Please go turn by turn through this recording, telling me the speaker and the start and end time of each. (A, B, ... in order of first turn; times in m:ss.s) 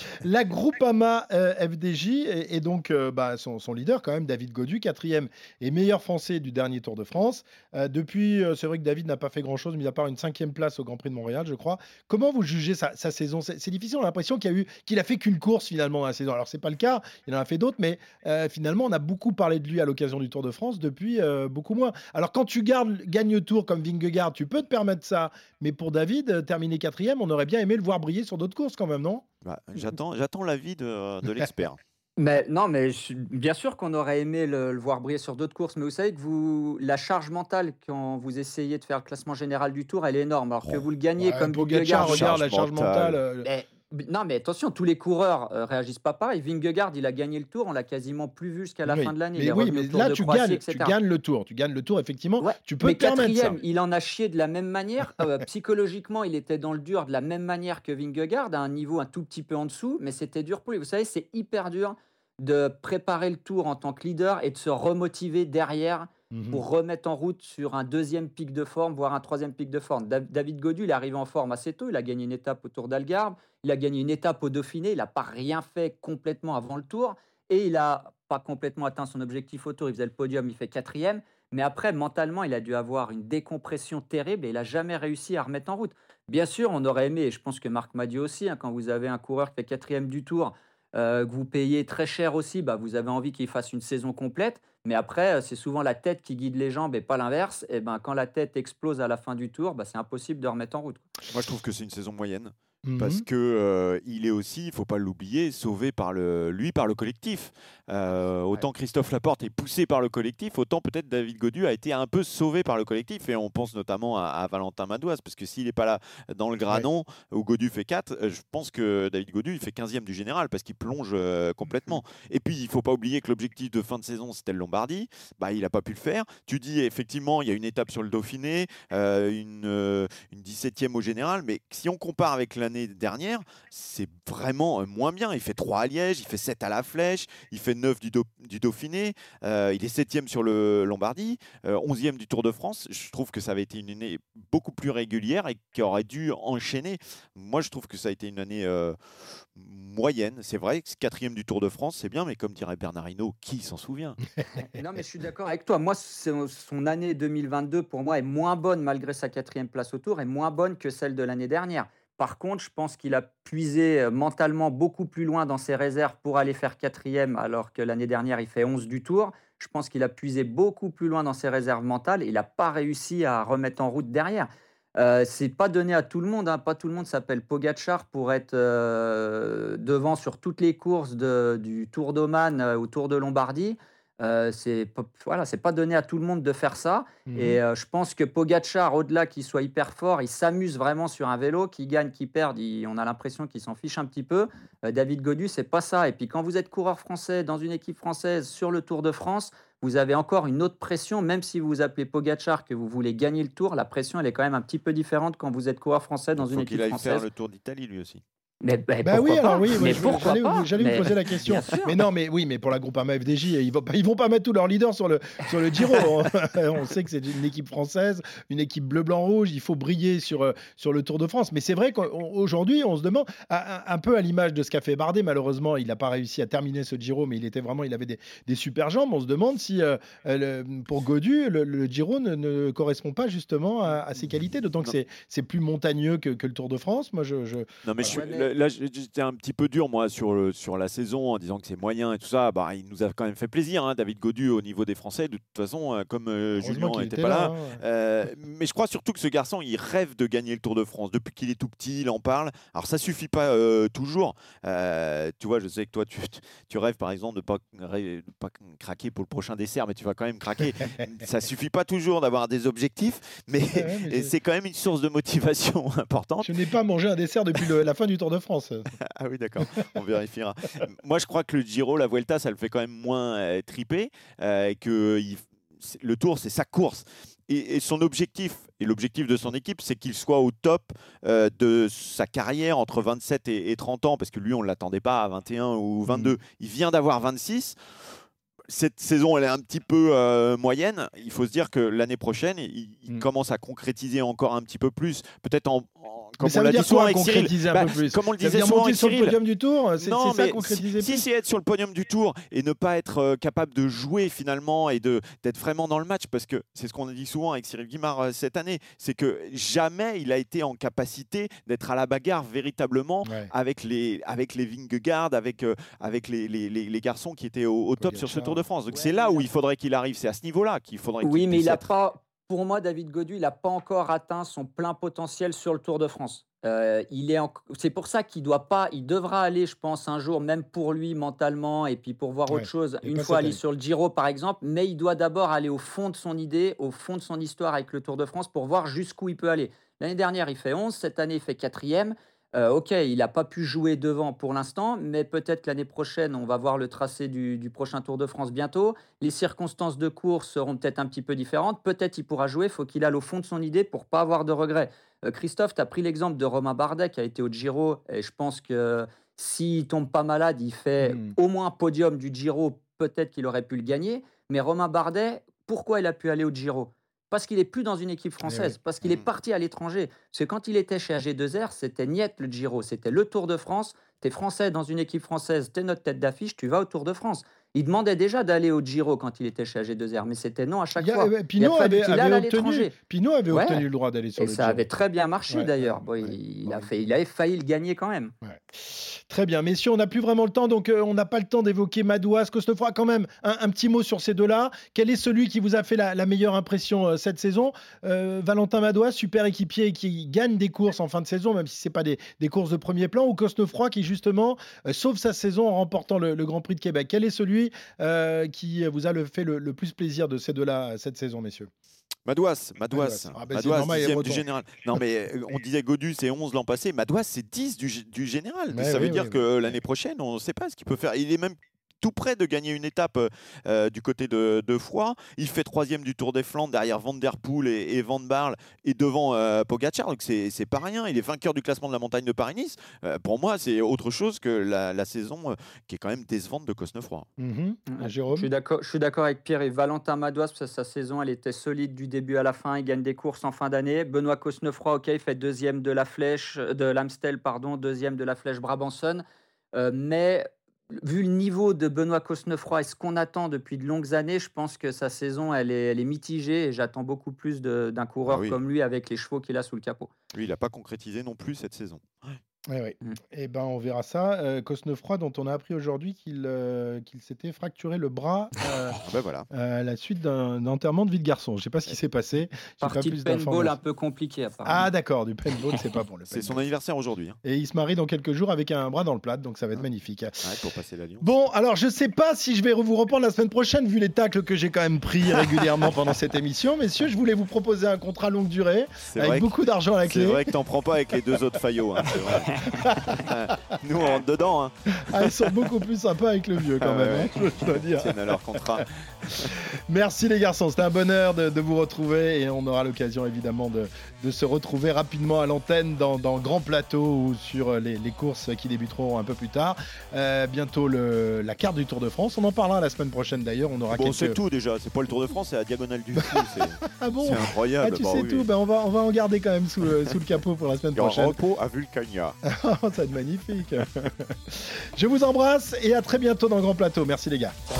0:00.2-0:29.2 A
0:29.4-0:31.8 B
0:32.2-0:42.3 C
0:41.2-0:43.5 A
0:41.9-0:43.2 B
0:43.4-0:51.0 C
0:48.8-0:53.6 A
0:52.4-1:41.0 C
1:06.3-1:06.6 A
1:41.3-2:29.0 B
1:42.8-1:43.2 A
2:29.6-2:34.2 B
2:34.7-3:27.2 C
3:07.3-3:07.6 A
3:26.4-3:28.2 B
3:28.6-3:32.0 C
3:29.0-3:58.2 A
3:57.8-4:26.5 B
3:58.0-3:58.5 C
4:06.6-4:07.8 A
4:23.7-4:24.3 A
4:26.4-4:28.9 A
4:29.1-4:47.8 B
4:46.1-4:46.4 A
4:48.7-4:59.4 B
4:56.4-5:01.2 A
5:00.0-5:21.8 B
5:13.2-5:13.5 A
5:18.0-5:18.6 A
5:18.9-5:19.5 C
5:21.2-6:22.9 C
5:32.5-5:33.6 A
6:01.0-6:01.3 A
6:08.4-6:08.8 A
6:21.0-6:24.8 A
6:23.5-6:23.8 C
6:24.4-6:28.3 C
6:25.5-6:26.9 A
6:28.4-6:51.7 A
6:52.2-7:17.3 B
6:52.9-6:54.4 A
6:58.7-6:59.4 A
7:17.4-7:18.5 A
7:17.9-7:29.2 C
7:29.7-7:40.1 C
7:38.2-7:38.6 B
7:40.3-7:42.4 B
7:42.7-7:49.0 A
7:49.0-7:49.5 B
7:49.5-7:53.8 A
7:52.8-7:54.9 C
7:54.6-7:56.6 A
7:56.3-7:57.4 B
7:57.4-8:00.5 A
8:00.4-8:01.3 B
8:01.2-8:10.5 A
8:09.0-8:09.5 B
8:10.0-8:15.5 B
8:12.1-8:13.2 A
8:15.0-8:34.4 A
8:16.8-8:19.6 B
8:33.9-8:38.5 B
8:36.2-8:41.4 A
8:40.9-8:42.4 B
8:42.4-8:47.6 A